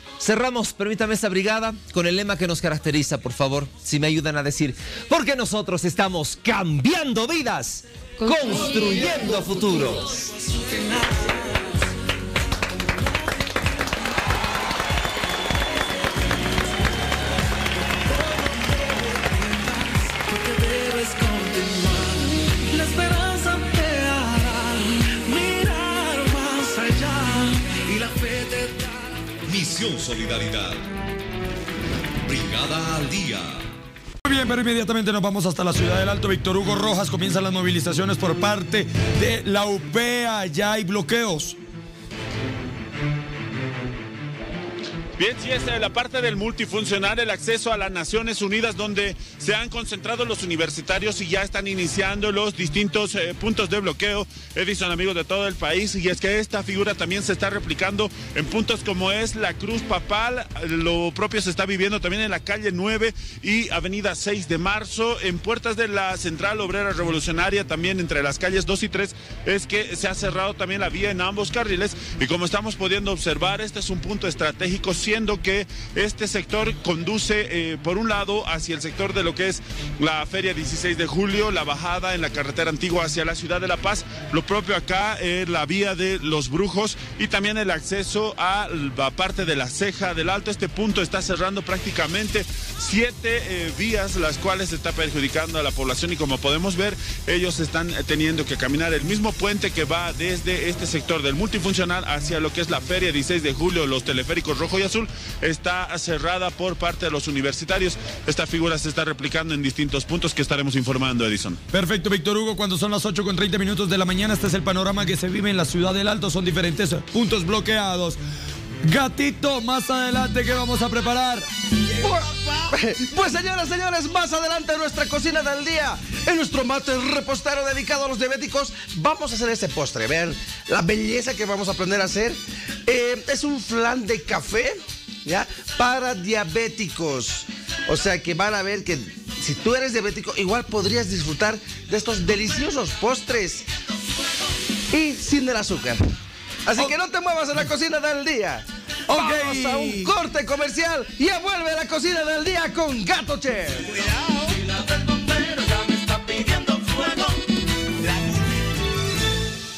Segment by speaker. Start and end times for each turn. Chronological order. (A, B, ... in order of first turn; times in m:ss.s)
0:00.2-0:10.1 A
0:29.4-0:30.8 B
0:32.2-0:33.7 B
0:34.2-0:41.6 C
0:45.2-1:51.6 D
1:51.7-1:58.2 C
1:58.8-2:01.5 C
2:02.0-2:23.6 E
2:24.9-2:26.0 E
2:26.6-2:34.0 E
2:29.1-2:30.1 C